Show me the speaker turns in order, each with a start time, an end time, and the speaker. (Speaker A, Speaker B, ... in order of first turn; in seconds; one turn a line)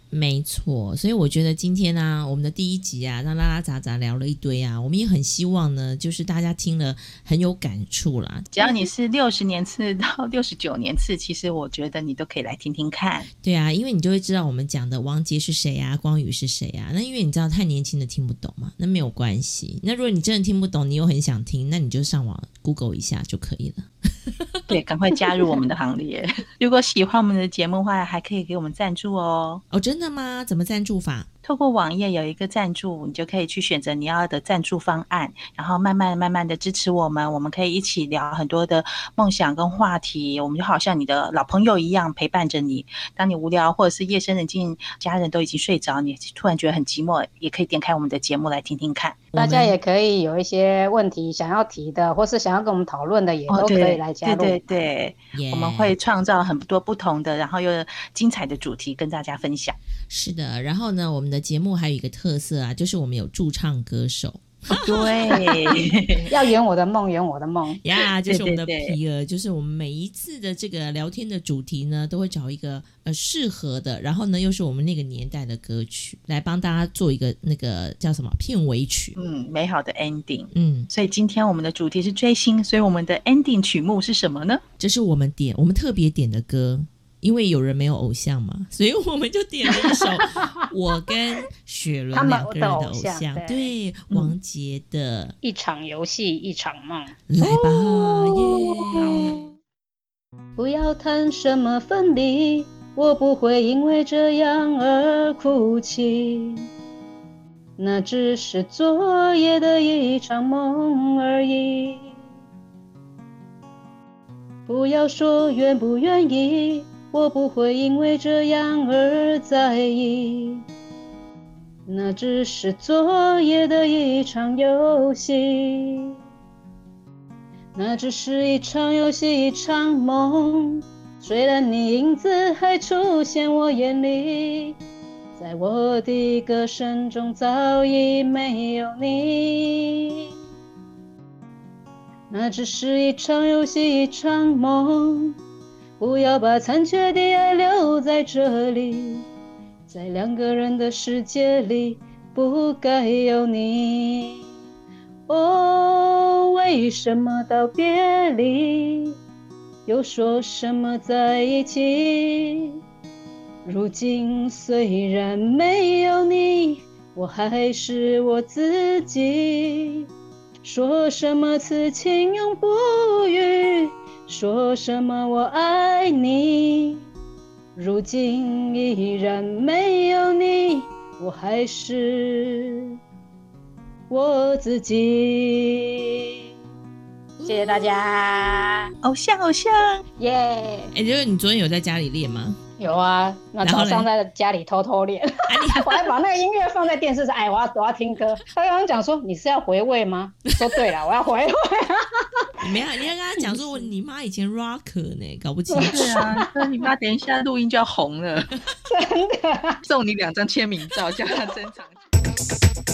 Speaker A: 0.1-8.7
Speaker B: 8.6-13.3
Speaker A: 13.4-24.8
Speaker B: 24.7-29.6
Speaker A: 29.7-31.3
Speaker B: 31.4-49.2
Speaker A: 49.3-49.8
Speaker C: 49.4-54.6
Speaker B: 53.5-59.8
Speaker A: 55.3-55.9
Speaker A: 60.1-65.5
Speaker B: 64.7-66.3
Speaker C: 66.3-67.8
Speaker A: 67.8-79.2
Speaker B: 68.3-69.0
Speaker B: 79.2-84.6
Speaker A: 80.5-80.9
Speaker A: 84.8-95.4
Speaker C: 92.1-93.7
Speaker C: 95.4-99.5
Speaker A: 97.3-99.4
Speaker C: 100.6-106.7
Speaker C: 107.8-112.2
Speaker C: 114.7-120.7
Speaker C: 121.9-126.2
Speaker C: 127.8-134.8
Speaker C: 135.4-140.3
Speaker C: 142.3-145.4
Speaker C: 146.0-149.3
Speaker C: 149.9-154.4
Speaker C: 155.3-159.2
Speaker C: 159.9-162.8
Speaker C: 163.6-170.1
Speaker C: 170.6-177.1
Speaker C: 177.8-182.9
Speaker C: 184.1-186.3
Speaker A: 187.4-188.6
Speaker C: 187.4-188.9
Speaker B: 189.0-190.0
Speaker C: 190.2-190.9
Speaker A: 190.9-192.6
Speaker C: 192.8-202.1
Speaker A: 193.6-194.1
Speaker A: 195.5-196.1
Speaker A: 202.6-206.3
Speaker C: 203.5-203.9
Speaker C: 205.7-206.5
Speaker B: 205.9-208.5
Speaker C: 208.9-209.8
Speaker B: 209.8-212.0